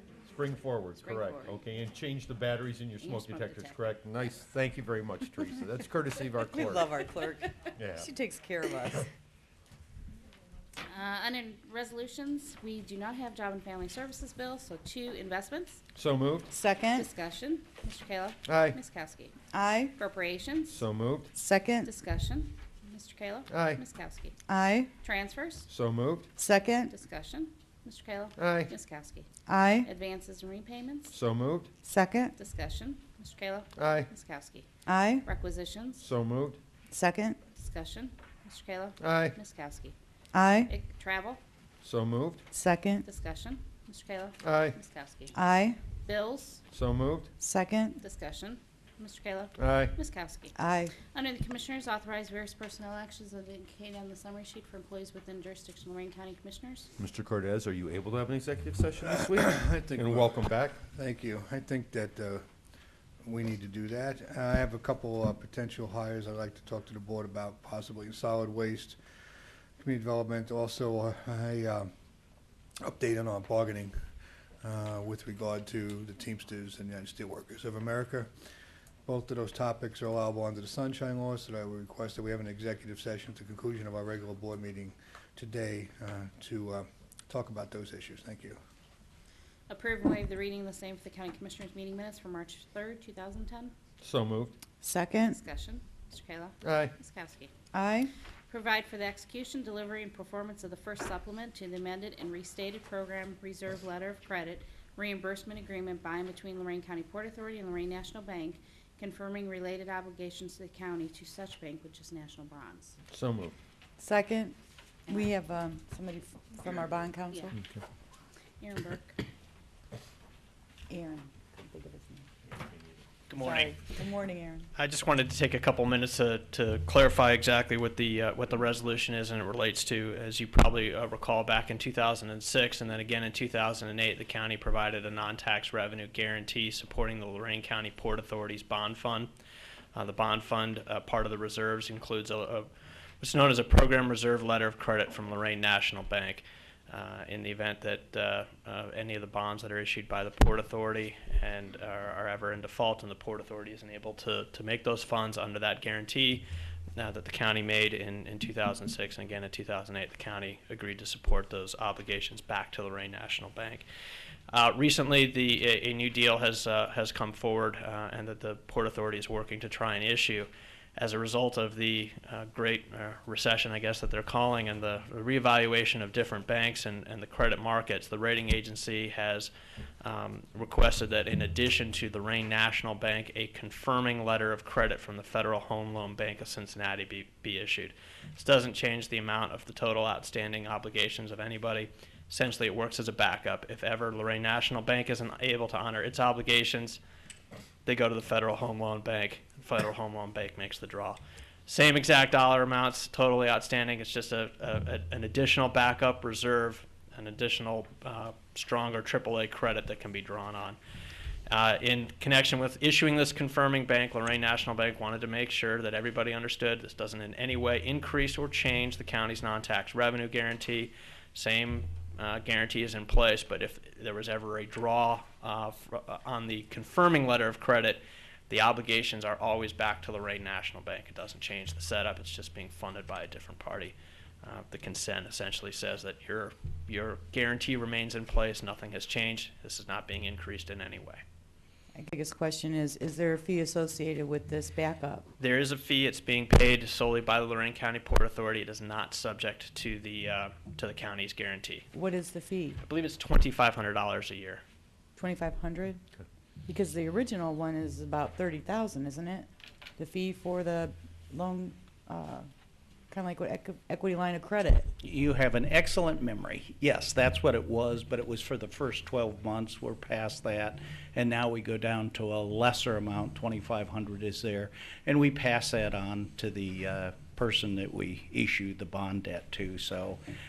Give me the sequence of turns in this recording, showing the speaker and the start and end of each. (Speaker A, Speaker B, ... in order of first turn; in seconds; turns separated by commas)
Speaker A: 0.2-6.9, Speaker B: 1.0-1.6, Speaker B: 3.0-3.9, Speaker C: 6.4-9.1, Speaker A: 7.8-8.1, Speaker B: 10.8-15.8, Speaker A: 15.9-16.5, Speaker C: 16.5-17.1, Speaker B: 16.9-19.3, Speaker A: 18.5-18.8, Speaker C: 19.5-19.9, Speaker B: 19.9-20.8, Speaker A: 20.7-21.3, Speaker C: 21.3-21.9, Speaker B: 21.8-24.4, Speaker A: 23.5-23.8, Speaker C: 24.5-24.9, Speaker B: 25.0-25.7, Speaker A: 25.7-26.3, Speaker C: 26.4-26.9, Speaker B: 26.9-29.3, Speaker A: 28.4-28.7, Speaker C: 29.5-29.9, Speaker B: 29.8-31.1, Speaker A: 31.1-31.7, Speaker C: 31.8-32.3, Speaker B: 32.4-34.7, Speaker A: 33.8-34.1, Speaker C: 34.9-35.3, Speaker B: 35.2-36.0, Speaker A: 36.0-36.6, Speaker C: 36.9-37.4, Speaker B: 37.5-40.0, Speaker A: 39.0-39.3, Speaker C: 40.3-40.7, Speaker B: 40.7-41.4, Speaker A: 41.8-42.4, Speaker C: 42.5-43.0, Speaker B: 43.0-45.4, Speaker A: 44.4-44.8, Speaker C: 45.3-45.8, Speaker B: 46.0-46.6, Speaker A: 46.7-47.3, Speaker C: 47.4-48.0, Speaker B: 48.0-50.5, Speaker A: 49.6-49.9, Speaker C: 50.5-50.9, Speaker B: 51.0-56.9, Speaker A: 57.0-60.8, Speaker D: 59.0-62.4, Speaker D: 63.2-69.0, Speaker D: 69.8-71.9, Speaker D: 72.8-73.9, Speaker D: 74.6-78.3, Speaker D: 79.1-88.6, Speaker B: 89.7-93.7, Speaker A: 94.0-94.6, Speaker C: 94.8-95.4, Speaker B: 95.2-97.5, Speaker A: 96.6-96.9, Speaker C: 97.7-98.1, Speaker B: 98.5-113.0, Speaker A: 113.1-113.5, Speaker C: 114.0-114.5, Speaker C: 115.1-117.6, Speaker B: 117.3-117.5, Speaker B: 118.6-119.2, Speaker C: 120.9-122.3, Speaker E: 123.4-123.8, Speaker C: 123.4-124.7, Speaker E: 124.8-139.3, Speaker E: 139.9-142.7, Speaker E: 143.2-163.8, Speaker E: 164.5-179.5, Speaker E: 180.0-197.0, Speaker E: 197.8-210.8, Speaker E: 211.5-241.2, Speaker C: 241.9-245.2, Speaker E: 245.4-251.8, Speaker C: 251.9-252.8, Speaker E: 252.8-254.6, Speaker C: 255.2-256.0, Speaker C: 256.7-262.5, Speaker C: 263.1-264.9, Speaker F: 265.0-280.2